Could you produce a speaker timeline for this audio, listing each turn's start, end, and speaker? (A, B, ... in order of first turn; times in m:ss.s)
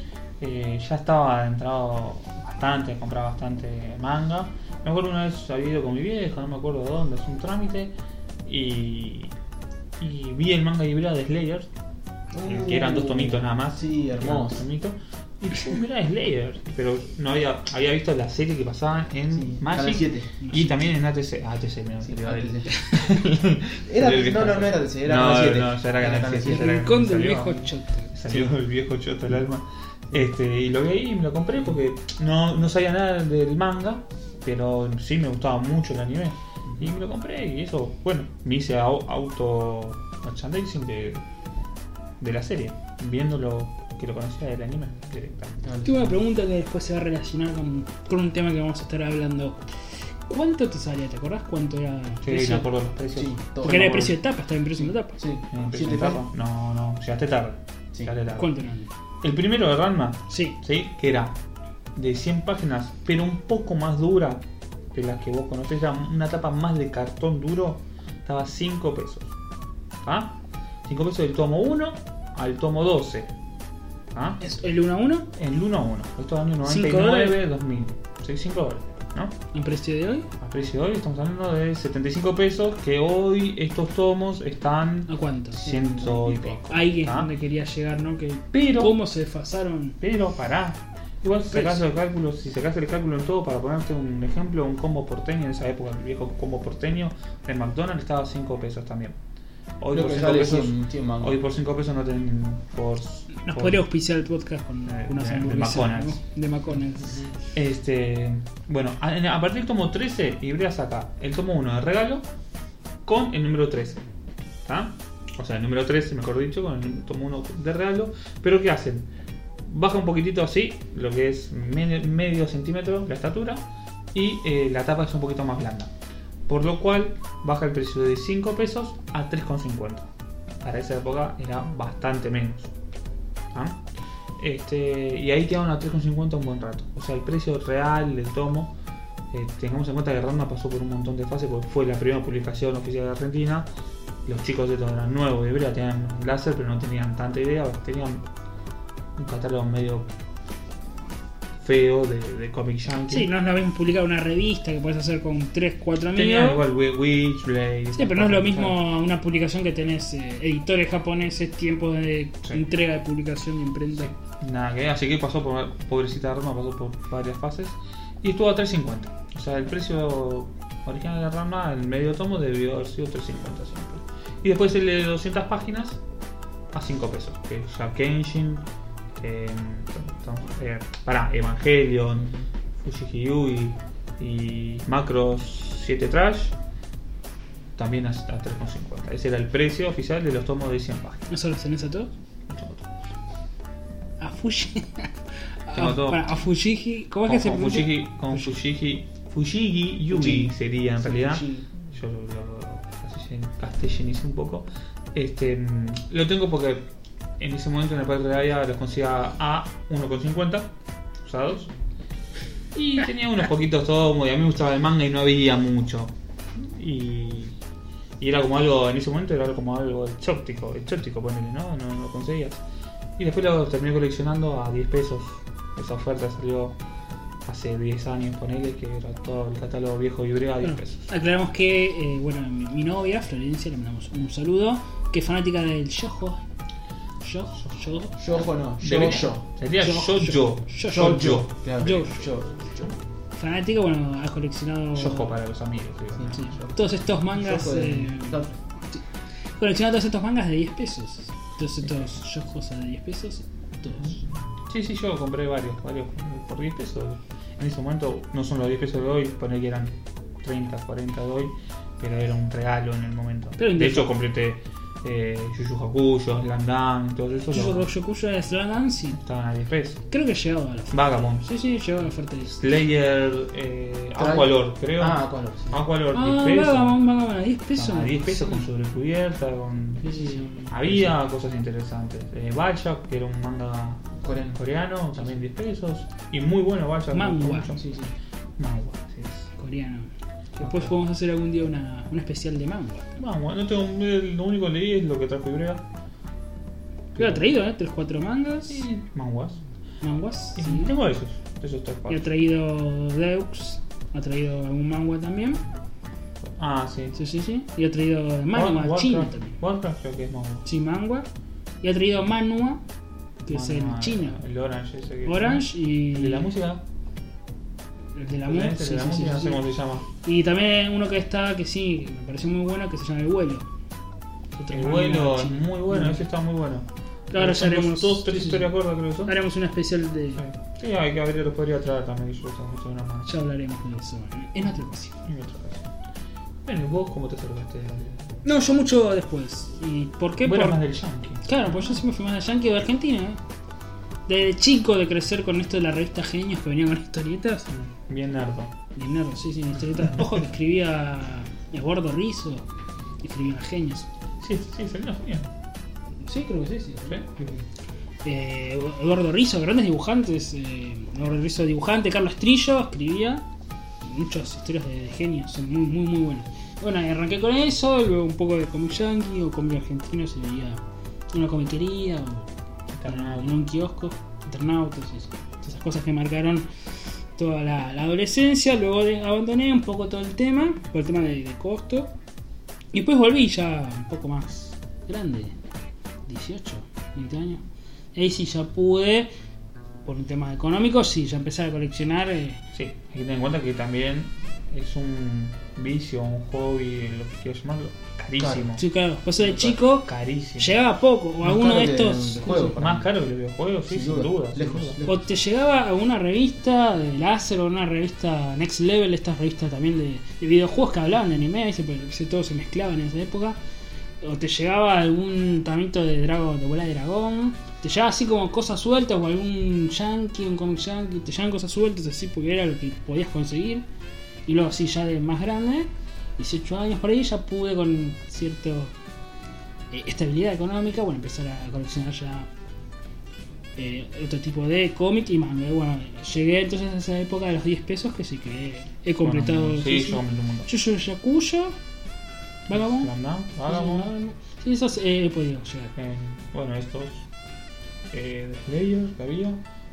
0:00.4-0:07.9 A
0:08.4-0:09.3 A
0:10.0-0:11.7 A
0:12.3-0:14.6 B
0:12.4-0:41.2 A
0:19.3-0:20.4 B
0:20.4-0:20.8 C
0:22.0-0:23.2 B
0:23.9-0:26.8 B
0:26.4-0:28.1 C
0:42.2-0:45.6 A
0:45.6-0:46.1 B
0:45.8-0:49.6 C
0:50.3-0:52.7 C
0:52.2-0:54.2 A
0:53.2-0:54.1 B
0:53.6-0:55.2 C
0:54.8-0:56.2 B
0:55.5-0:58.5 A
0:58.4-0:58.9 C
0:59.2-1:01.4 A
1:00.3-1:00.6 C
1:02.0-1:09.3 A
1:10.0-1:13.3 A
1:14.1-1:14.4 A
1:14.4-1:15.3 C
1:15.4-1:19.4 A
1:16.6-1:17.4 C
1:19.5-1:20.3 C
1:20.4-1:27.3 A
1:25.1-1:25.9 C
1:25.6-1:26.6 B
1:26.6-1:30.0 C
1:28.5-1:29.0 A
1:30.0-1:39.2 A
1:31.5-1:31.8 C
1:39.8-1:43.8 A
1:39.9-1:41.4 B
1:43.4-1:47.3 C
1:44.9-1:46.2 A
1:47.5-1:52.2 A
1:53.0-1:54.1 A
1:54.6-1:59.1 A
1:59.6-2:05.9 A
2:06.5-2:10.1 A
2:10.6-2:12.7 A
2:13.5-2:13.8 A
2:14.4-2:18.8 A
2:19.3-2:23.7 A
2:24.2-2:28.3 A
2:29.2-2:30.1 A
2:31.6-2:33.3 A
2:33.1-2:36.6 C
2:36.1-2:38.8 A
2:37.9-2:44.1 C
2:44.0-2:56.0 A
2:56.7-2:58.7 A
2:59.2-3:06.6 A
3:07.8-3:11.3 A
3:11.3-3:12.1 C
3:12.5-3:12.9 A
3:14.2-3:15.2 C
3:15.7-3:18.6 C
3:15.7-3:16.4 A
3:17.3-3:26.9 A
3:20.1-3:21.6 B
3:27.4-3:31.7 A
3:32.7-3:37.6 A
3:38.2-3:42.6 A
3:43.2-3:46.8 A
3:47.4-3:51.1 A
3:50.6-3:56.4 C
3:57.2-3:58.2 C
3:58.2-3:59.4 B
3:58.8-4:01.5 A
3:59.8-4:02.3 C
4:00.9-4:03.0 B
4:03.3-4:05.4 C
4:05.0-4:06.5 A
4:06.2-4:06.8 B
4:06.4-4:08.4 C
4:07.3-4:08.6 B
4:09.6-4:14.2 C
4:14.7-4:27.9 A
4:23.6-4:24.1 C
4:27.5-4:29.2 C
4:29.1-4:30.0 A
4:30.1-4:32.6 C
4:30.9-4:31.5 A
4:32.5-4:37.0 A
4:34.2-4:35.8 B
4:36.1-4:38.7 C
4:37.8-4:48.0 A
4:40.0-4:40.7 C
4:40.3-4:41.1 B
4:44.2-4:44.6 B
4:47.1-4:47.8 C
4:47.8-4:48.1 B
4:48.6-4:49.5 A
4:49.6-4:53.1 C
4:50.6-4:50.9 A
4:53.2-4:55.9 A
4:57.2-4:57.5 A
4:57.2-4:58.9 C
4:58.7-4:59.6 A
5:00.0-5:00.9 C
5:00.6-5:02.3 A
5:02.1-5:05.6 C
5:06.4-5:07.2 A
5:07.2-5:09.6 C
5:08.5-5:10.7 A
5:10.6-5:11.3 C
5:11.8-5:12.8 C
5:13.4-5:14.4 C
5:13.5-5:16.8 A
5:15.2-5:16.5 C
5:18.2-5:19.6 C
5:18.4-5:20.1 A
5:20.2-5:23.7 C
5:24.6-5:26.2 C
5:24.7-5:29.4 A
5:27.3-5:30.4 C
5:30.4-5:33.3 A
5:33.3-5:35.2 C
5:35.2-5:35.9 A
5:36.6-5:38.3 A
5:38.4-5:40.8 C
5:40.4-5:42.0 A
5:41.4-5:43.4 C
5:44.3-5:47.7 C
5:47.7-5:48.8 A
5:49.0-5:52.6 C
5:53.2-5:54.1 C
5:54.4-5:55.5 A
5:56.2-5:57.3 C
5:58.2-6:03.4 C
6:04.0-6:10.8 C
6:11.3-6:12.5 C
6:12.9-6:13.6 A
6:13.0-6:16.7 C
6:17.4-6:22.1 C
6:22.9-6:25.6 C
6:26.3-6:27.6 C
6:28.2-6:29.3 C
6:30.0-6:32.6 C
6:32.7-6:38.8 A
6:38.4-6:38.6 B
6:38.8-6:42.8 C
6:39.6-6:40.8 A
6:41.4-6:43.1 B
6:42.8-6:45.0 A
6:43.9-6:45.2 B
6:45.0-6:53.6 C
6:54.2-7:03.8 C
7:04.5-7:08.9 C
7:09.9-7:12.5 C
7:13.8-7:21.8 C
7:19.2-7:20.7 A
7:22.7-7:23.1 C
7:22.7-7:24.1 A
7:23.6-7:25.9 C
7:26.0-7:27.3 A
7:28.1-7:29.6 A